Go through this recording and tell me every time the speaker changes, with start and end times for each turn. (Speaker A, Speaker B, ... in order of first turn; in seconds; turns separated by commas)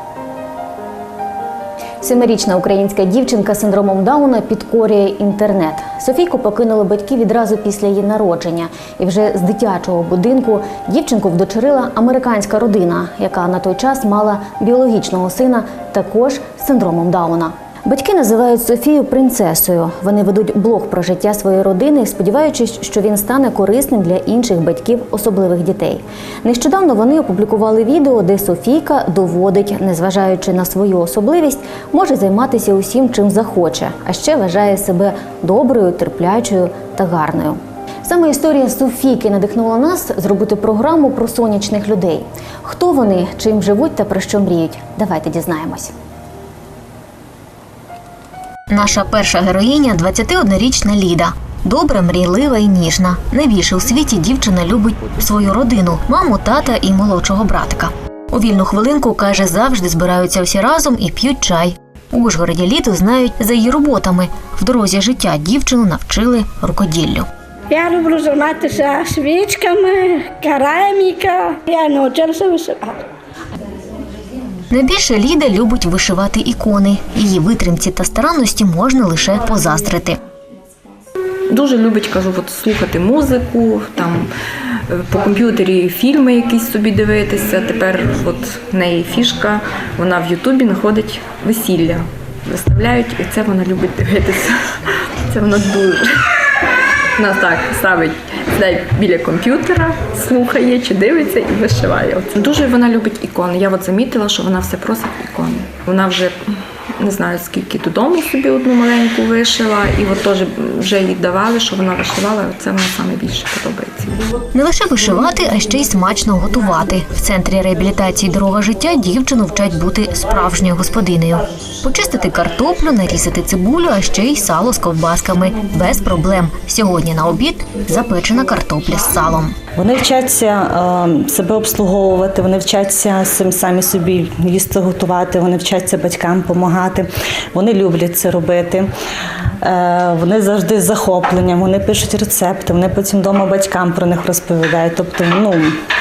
Speaker A: 2.0-45.9, Speaker A: 48.7-67.3, Speaker B: 67.7-72.9, Speaker A: 74.7-80.2, Speaker C: 81.5-84.3, Speaker C: 84.9-94.6, Speaker C: 95.3-96.3, Speaker C: 97.2-114.3, Speaker A: 114.5-129.6, Speaker D: 129.8-138.9, Speaker D: 139.6-145.8